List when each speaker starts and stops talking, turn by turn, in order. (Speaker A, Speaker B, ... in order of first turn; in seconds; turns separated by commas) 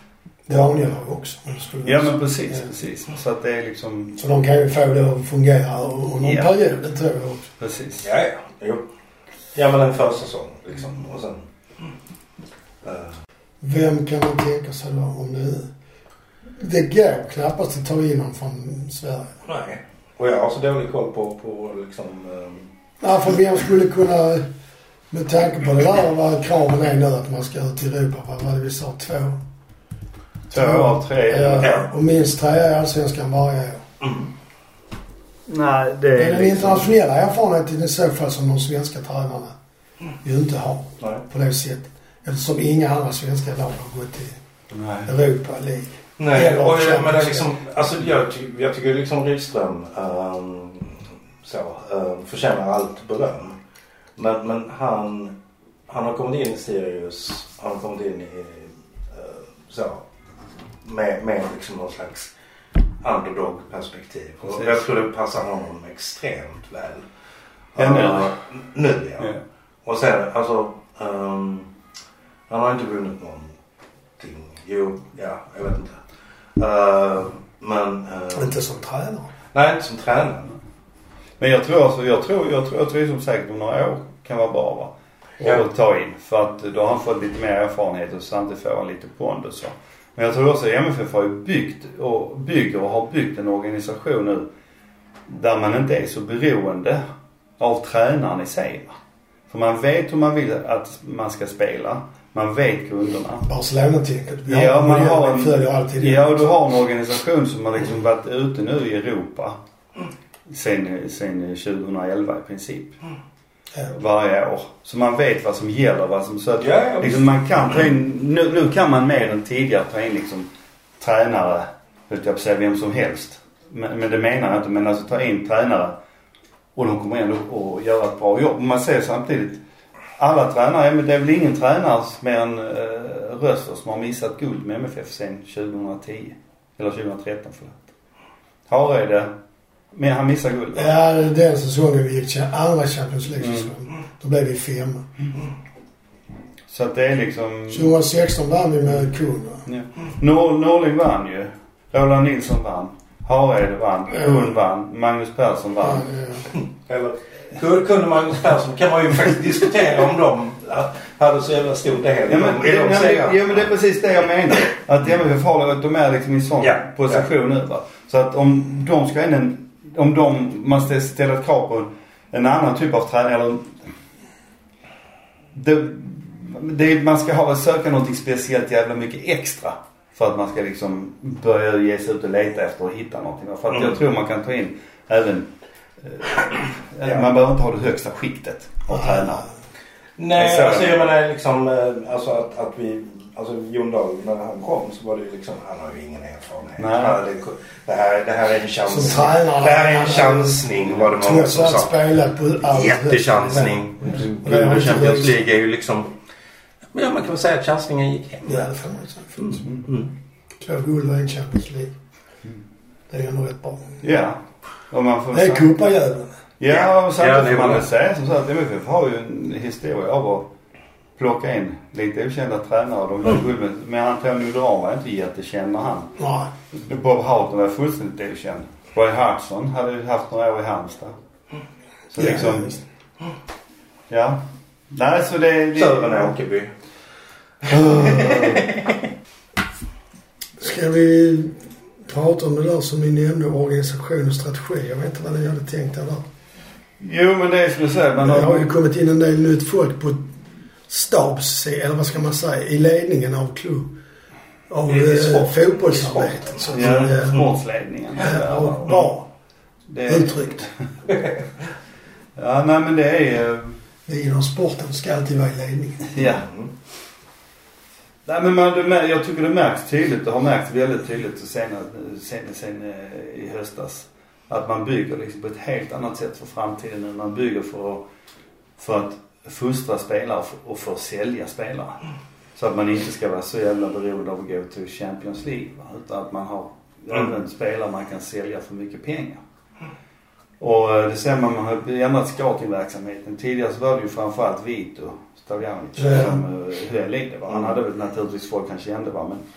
Speaker A: 0.5-2.7, Speaker B: 1.9-4.2, Speaker A: 4.2-7.5, Speaker B: 6.2-6.5, Speaker B: 7.6-8.1, Speaker C: 8.0-8.9, Speaker C: 9.5-11.4, Speaker C: 12.8-13.2, Speaker A: 13.6-15.7, Speaker A: 16.6-19.4, Speaker C: 19.5-22.7, Speaker A: 23.0-24.5, Speaker A: 25.1-29.4, Speaker B: 30.5-31.7, Speaker A: 30.5-33.8, Speaker C: 31.6-31.9, Speaker C: 34.0-34.3, Speaker B: 35.5-37.0, Speaker A: 36.2-39.5, Speaker A: 40.2-44.4, Speaker B: 44.7-45.1, Speaker A: 45.1-47.5, Speaker C: 46.2-53.6, Speaker C: 54.2-55.4, Speaker C: 55.9-60.0, Speaker C: 60.8-62.3, Speaker C: 63.0-67.0, Speaker C: 67.8-69.3, Speaker B: 67.8-68.3, Speaker C: 69.8-71.7, Speaker C: 72.5-73.5, Speaker C: 74.2-76.0, Speaker C: 76.6-78.5, Speaker A: 78.3-79.3, Speaker C: 79.5-80.5, Speaker B: 81.4-94.5, Speaker B: 95.3-97.0, Speaker B: 97.6-99.0, Speaker B: 99.5-103.5, Speaker A: 103.4-106.4, Speaker B: 104.5-109.6, Speaker B: 110.5-113.0, Speaker B: 113.9-120.5, Speaker C: 116.6-117.2, Speaker B: 121.0-126.0, Speaker B: 126.8-129.6, Speaker B: 130.2-137.8, Speaker B: 138.7-139.3, Speaker B: 139.9-140.9, Speaker A: 140.8-145.1, Speaker B: 143.4-143.7, Speaker B: 146.7-147.9, Speaker A: 147.7-149.6, Speaker B: 149.7-156.1, Speaker A: 155.8-156.5, Speaker C: 156.9-163.7, Speaker B: 162.3-173.8, Speaker C: 166.6-167.2, Speaker B: 175.5-189.4, Speaker A: 188.9-189.5, Speaker C: 190.2-202.1, Speaker B: 190.4-191.0, Speaker B: 196.8-197.2, Speaker A: 198.9-200.6, Speaker A: 201.2-205.4, Speaker C: 202.6-206.1, Speaker B: 204.2-205.3, Speaker C: 206.9-208.7, Speaker A: 208.4-209.7, Speaker C: 209.4-210.1, Speaker A: 210.6-211.9, Speaker A: 213.1-214.0, Speaker B: 214.0-215.8, Speaker A: 215.3-216.3, Speaker B: 216.6-220.5, Speaker C: 216.7-217.9, Speaker B: 221.2-226.2, Speaker A: 226.2-226.5, Speaker B: 226.7-231.2, Speaker B: 232.1-232.8, Speaker A: 232.2-232.8, Speaker B: 234.1-236.4, Speaker C: 235.8-236.7, Speaker C: 237.6-239.0, Speaker A: 237.7-238.4, Speaker A: 240.6-246.2, Speaker B: 247.0-248.7, Speaker A: 248.2-250.2, Speaker A: 250.9-253.9, Speaker A: 254.7-257.4, Speaker C: 255.0-255.5, Speaker C: 256.1-257.1, Speaker B: 256.7-259.1, Speaker A: 258.2-259.3, Speaker B: 259.9-260.7, Speaker A: 260.1-260.7, Speaker B: 262.4-263.8, Speaker A: 264.1-266.1, Speaker B: 266.1-266.4, Speaker C: 266.2-266.7, Speaker B: 268.2-278.0, Speaker B: 278.8-282.0, Speaker B: 282.6-289.4, Speaker B: 290.6-299.4, Speaker A: 296.0-296.3